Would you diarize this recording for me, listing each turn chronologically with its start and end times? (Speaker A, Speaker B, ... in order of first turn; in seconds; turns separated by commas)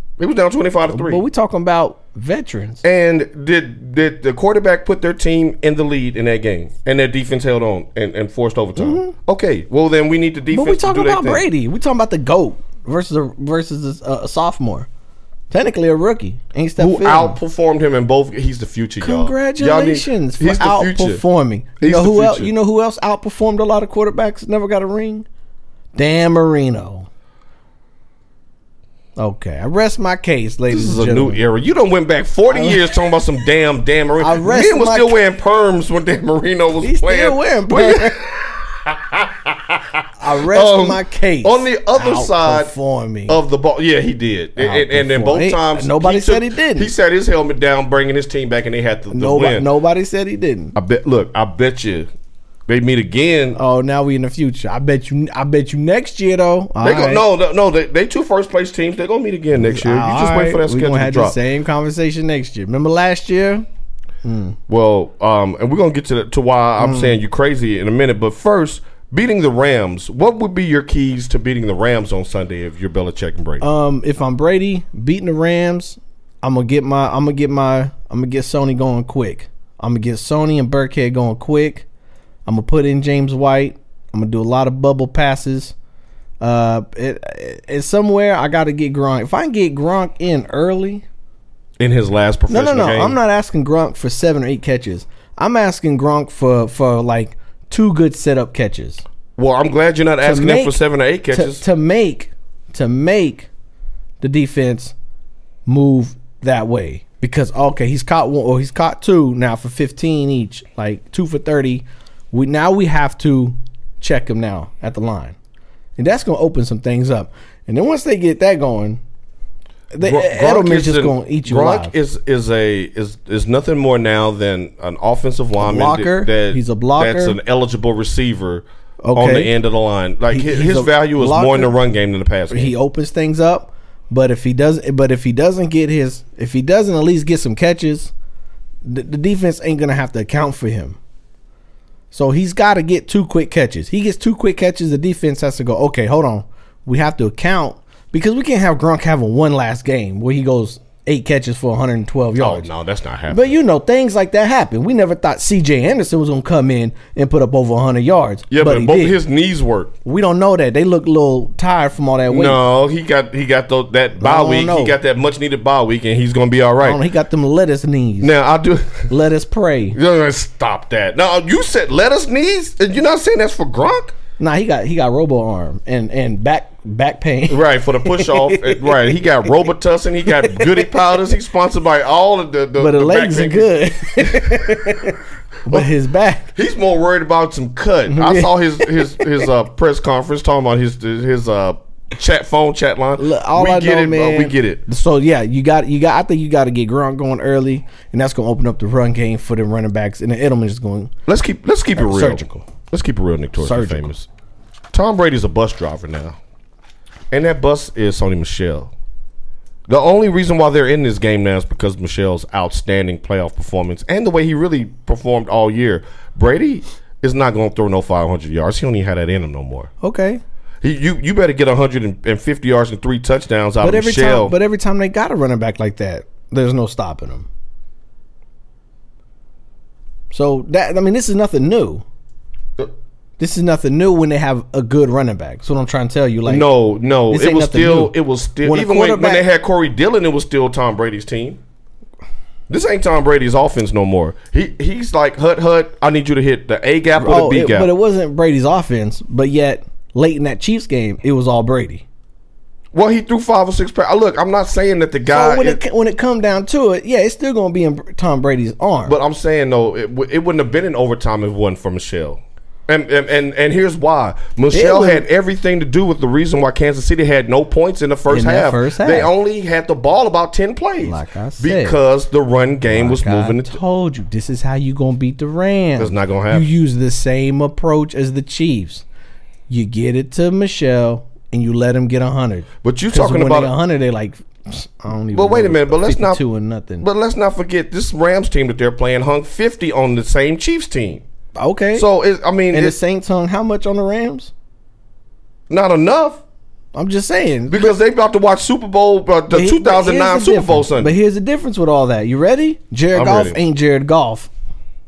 Speaker A: 0.2-1.2, Speaker B: 0.9-2.8, Speaker A: 2.8-11.4, Speaker B: 8.8-9.1, Speaker B: 10.5-14.9, Speaker B: 15.5-17.4, Speaker A: 16.8-21.2, Speaker B: 19.0-25.2, Speaker A: 21.8-22.5, Speaker B: 25.9-27.1, Speaker B: 29.2-31.4, Speaker A: 30.7-42.7, Speaker B: 32.5-32.8, Speaker B: 34.2-35.2, Speaker B: 36.8-38.2, Speaker B: 40.2-43.4, Speaker A: 43.3-49.7, Speaker B: 44.6-46.9, Speaker B: 49.1-50.7, Speaker A: 50.7-52.1, Speaker A: 52.7-53.6, Speaker B: 53.5-57.2, Speaker A: 56.8-61.4, Speaker B: 59.5-63.6, Speaker B: 64.2-64.6, Speaker A: 64.7-73.6, Speaker B: 66.8-67.2, Speaker B: 73.6-81.8, Speaker B: 82.5-85.7, Speaker B: 86.4-91.0, Speaker A: 91.8-93.2, Speaker B: 92.5-99.0, Speaker A: 99.4-101.6, Speaker B: 100.2-103.5, Speaker B: 104.2-104.9, Speaker B: 105.7-115.3, Speaker B: 116.0-119.0, Speaker B: 119.9-121.9, Speaker A: 120.0-132.7, Speaker B: 125.6-127.4, Speaker B: 129.0-129.5, Speaker B: 130.3-131.7, Speaker B: 132.5-138.1, Speaker B: 138.8-141.0, Speaker B: 142.1-152.7, Speaker A: 152.4-153.6, Speaker B: 153.3-159.2, Speaker A: 158.5-159.9, Speaker B: 160.0-162.6, Speaker A: 162.3-167.0, Speaker B: 164.2-164.9, Speaker B: 166.8-168.3, Speaker A: 168.2-169.1, Speaker B: 169.1-170.0, Speaker A: 169.9-174.1, Speaker B: 174.4-179.1, Speaker A: 177.5-184.9, Speaker B: 180.3-180.8, Speaker B: 182.8-186.5, Speaker A: 186.5-194.8, Speaker B: 188.1-189.2, Speaker B: 193.2-201.1, Speaker A: 201.3-204.3, Speaker B: 201.9-202.5, Speaker B: 203.6-204.1, Speaker A: 204.9-206.4, Speaker A: 207.3-208.9, Speaker A: 209.9-219.9, Speaker B: 220.0-220.4, Speaker A: 220.8-224.5, Speaker B: 223.8-227.5, Speaker B: 230.3-232.0, Speaker B: 233.4-236.7, Speaker A: 236.4-241.6, Speaker B: 237.3-239.4, Speaker A: 242.7-247.9, Speaker B: 247.2-252.0, Speaker A: 252.9-255.8, Speaker B: 255.3-259.2, Speaker A: 259.0-273.8, Speaker B: 264.7-265.2, Speaker B: 268.3-269.3, Speaker B: 271.0-272.0, Speaker B: 272.9-279.0, Speaker A: 276.0-276.7, Speaker B: 279.7-287.1, Speaker A: 282.8-283.7, Speaker A: 285.3-286.4, Speaker A: 287.0-291.2, Speaker B: 291.6-292.1, Speaker A: 291.9-292.9, Speaker B: 292.7-294.5, Speaker A: 295.7-296.4, Speaker B: 296.9-297.9, Speaker A: 297.7-301.1, Speaker B: 299.5-304.5, Speaker A: 303.1-303.6